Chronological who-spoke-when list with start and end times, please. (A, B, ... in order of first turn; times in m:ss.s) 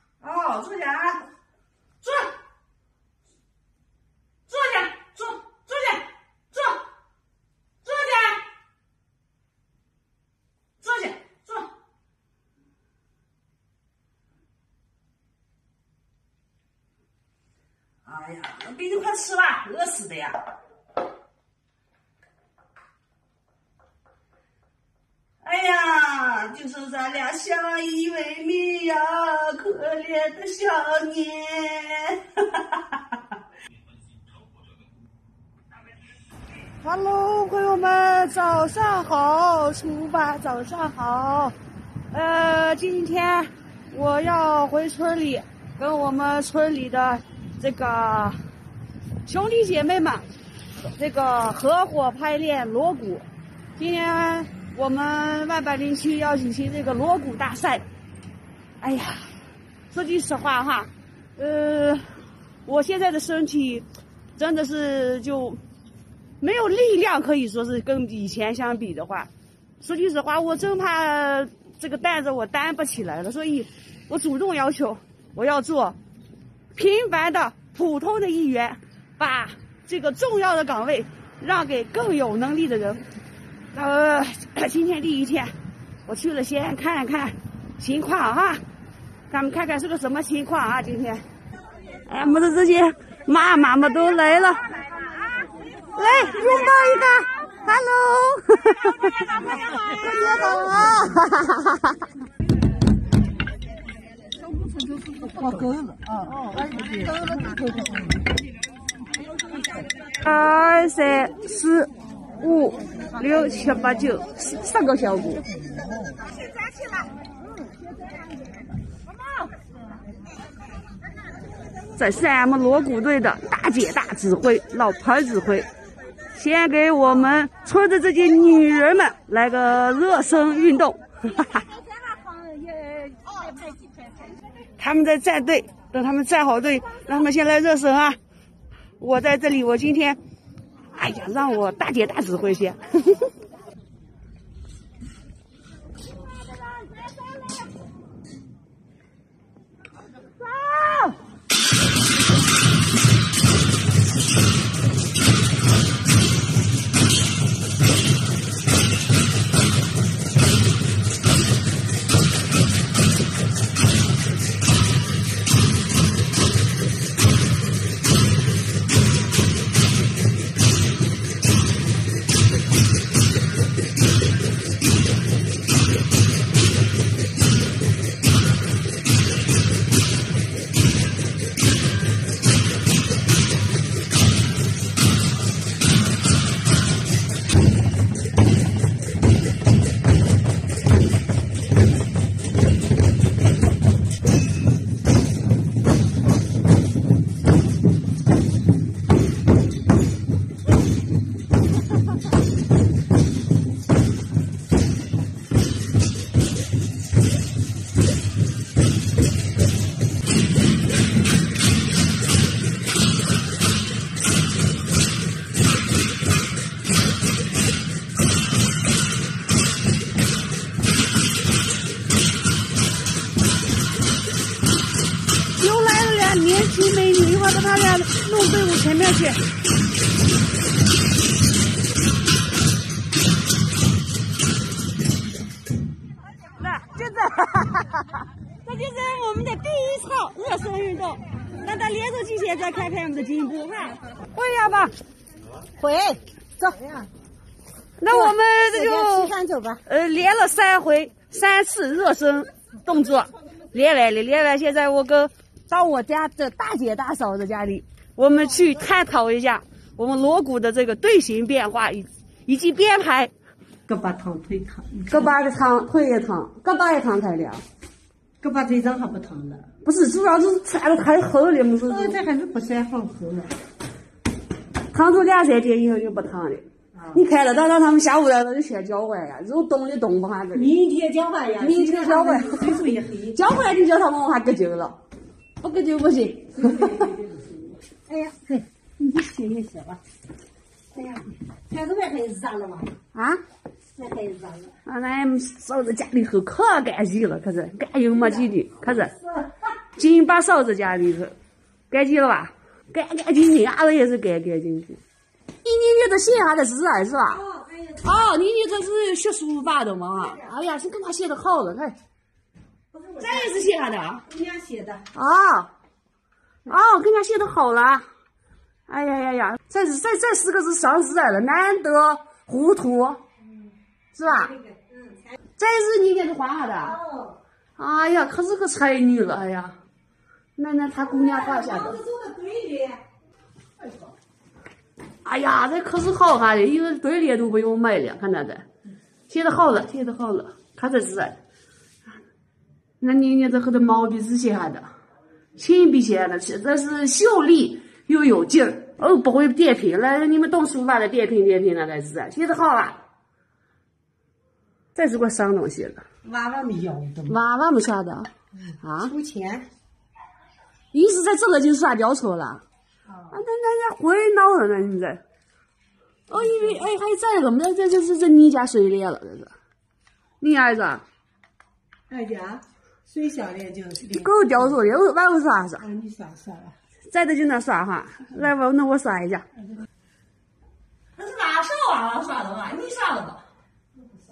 0:00.2-0:01.3 A
0:02.0-0:02.3 A
0:04.5-0:06.8 A
0:07.8-0:08.4 A
0:10.8-0:11.7 A
0:18.0-0:20.4 A
0:25.4-0:33.2 A
0:36.8-0:41.6 A
0:42.1-0:48.4 A
0:49.2-0:50.3 A
0:51.0-0:53.3 A
0:53.8-0:57.9 A
0:58.8-0:59.3 A
0:59.9-1:02.0 A
1:02.6-1:05.6 A
1:06.4-1:09.3 A
1:09.8-1:16.0 A
1:16.7-1:23.0 A
1:23.7-1:25.5 A
1:26.1-1:28.6 A
1:29.3-1:31.2 A
1:32.1-1:34.7 A
1:35.9-1:41.9 A
1:45.4-1:45.8 B
1:50.2-1:55.4 A
2:02.0-2:05.7 A
2:06.3-2:11.7 A
2:11.8-2:13.8 B
2:14.8-2:18.2 A
2:19.0-2:20.2 A
2:20.9-2:23.3 A
2:30.4-2:31.2 A
3:45.6-3:49.4 A
3:56.6-4:04.9 A
4:05.8-4:07.1 B
4:08.0-4:09.3 A
4:08.1-4:09.8 B
4:09.9-4:23.3 A
4:23.9-4:25.3 B
4:25.1-4:27.6 A
4:28.4-4:29.7 B
4:29.8-4:32.2 A
4:31.9-4:33.5 B
4:34.9-4:40.7 A
4:36.9-4:37.2 B
4:40.6-4:43.4 B
4:41.6-4:42.7 A
4:43.3-4:45.0 A
4:45.6-4:47.1 A
4:46.6-4:50.0 B
4:51.0-4:52.9 B
4:53.1-4:53.4 A
4:54.0-4:54.8 B
4:54.9-4:59.2 A
5:00.0-5:01.4 A
5:01.9-5:05.0 A
5:05.6-5:07.4 A
5:07.2-5:08.3 B
5:08.0-5:12.0 A
5:10.1-5:10.5 B
5:12.9-5:13.7 B
5:13.2-5:14.2 A
5:14.3-5:15.1 B
5:15.1-5:15.7 A
5:16.7-5:18.0 A
5:18.9-5:23.2 A
5:24.2-5:24.5 A
5:24.2-5:25.4 B
5:25.6-5:27.0 A
5:26.8-5:27.4 B
5:27.8-5:29.8 A
5:30.6-5:32.0 A
5:31.0-5:33.0 B
5:33.8-5:34.1 B
5:35.2-5:38.6 A
5:39.3-5:41.4 A
5:43.0-5:44.9 A
5:45.6-5:53.0 A
5:55.0-5:56.0 A
5:56.2-5:57.4 B
5:57.3-5:58.3 A
5:58.8-5:59.1 A
5:59.0-5:59.7 B
6:00.9-6:02.6 A
6:03.1-6:03.4 B
6:03.3-6:05.2 A
6:06.3-6:09.5 A
6:06.4-6:06.8 B
6:10.4-6:11.0 A
6:12.1-6:14.8 B
6:14.1-6:15.8 A
6:15.8-6:16.8 B
6:17.1-6:19.5 A
6:21.2-6:23.4 A